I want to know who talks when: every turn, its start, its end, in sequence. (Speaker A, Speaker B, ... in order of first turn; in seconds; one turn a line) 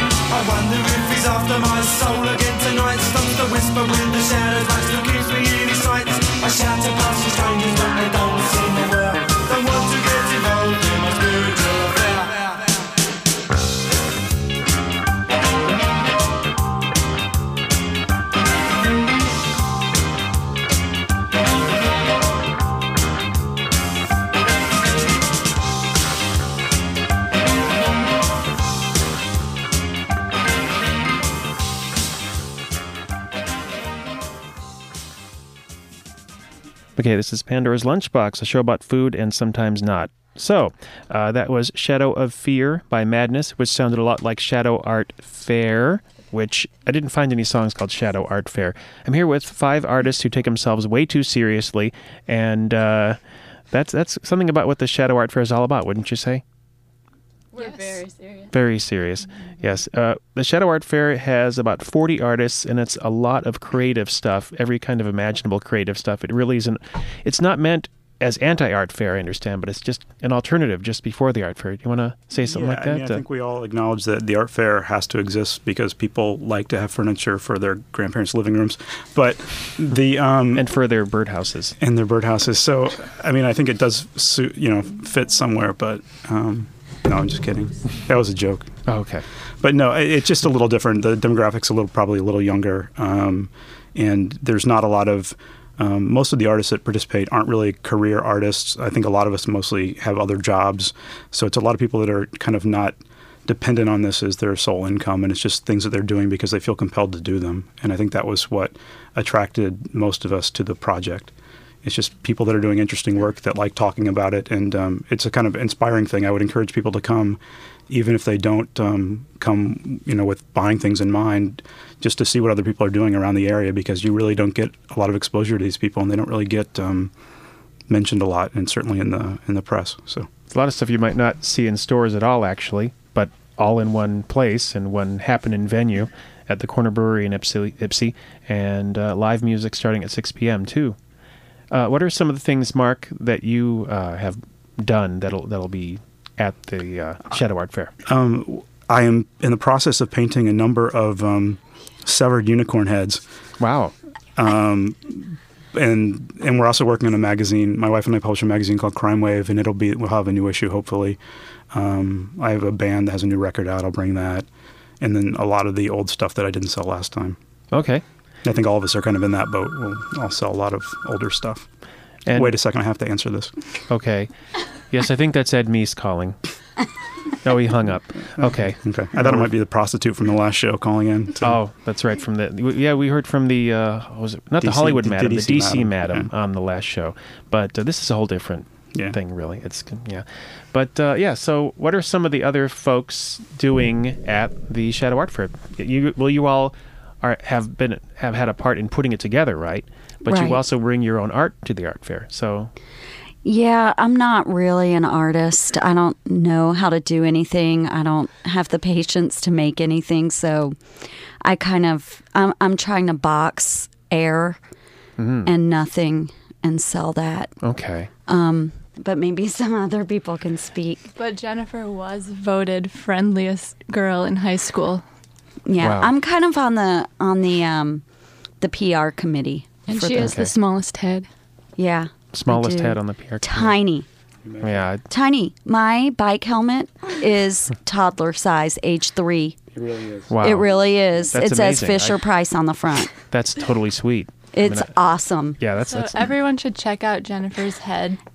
Speaker A: 0.3-12.6
Speaker B: 37.0-53.2
Speaker B: 53.7-56.4
Speaker C: 57.5-58.1
Speaker D: 57.5-58.5
Speaker B: 58.5-73.2
Speaker E: 72.4-80.6
Speaker B: 80.5-81.7
Speaker E: 81.8-88.7
Speaker B: 88.8-89.2
Speaker E: 89.6-111.3
Speaker E: 111.8-117.4
Speaker E: 117.9-127.1
Speaker E: 127.9-130.3
Speaker B: 130.5-140.9
Speaker B: 141.7-147.9
Speaker E: 148.1-153.2
Speaker B: 153.6-153.9
Speaker E: 154.3-161.2
Speaker E: 161.7-164.4
Speaker E: 165.0-167.4
Speaker B: 167.7-168.0
Speaker E: 168.4-171.7
Speaker B: 172.2-172.6
Speaker E: 172.3-173.5
Speaker B: 173.9-174.3
Speaker B: 174.9-176.4
Speaker B: 177.4-179.5
Speaker E: 178.3-181.6
Speaker B: 181.4-202.7
Speaker E: 184.6-186.3
Speaker F: 200.2-200.6
Speaker F: 203.4-210.8
Speaker F: 211.4-214.6
Speaker B: 215.2-215.5
Speaker F: 215.4-217.5
Speaker B: 217.6-218.1
Speaker F: 218.3-221.1
Speaker D: 221.2-225.0
Speaker F: 225.7-228.0
Speaker B: 225.8-226.1
Speaker F: 228.6-230.3
Speaker C: 229.9-231.3
Speaker B: 230.1-230.5
Speaker F: 231.8-234.1
Speaker B: 232.3-233.8
Speaker E: 234.4-234.9
Speaker B: 234.6-235.0
Speaker F: 235.1-239.6
Speaker E: 239.7-240.5
Speaker B: 240.3-240.7
Speaker F: 240.4-243.1
Speaker B: 241.3-242.2
Speaker B: 243.3-244.9
Speaker F: 244.5-245.6
Speaker B: 245.6-246.3
Speaker D: 245.8-248.2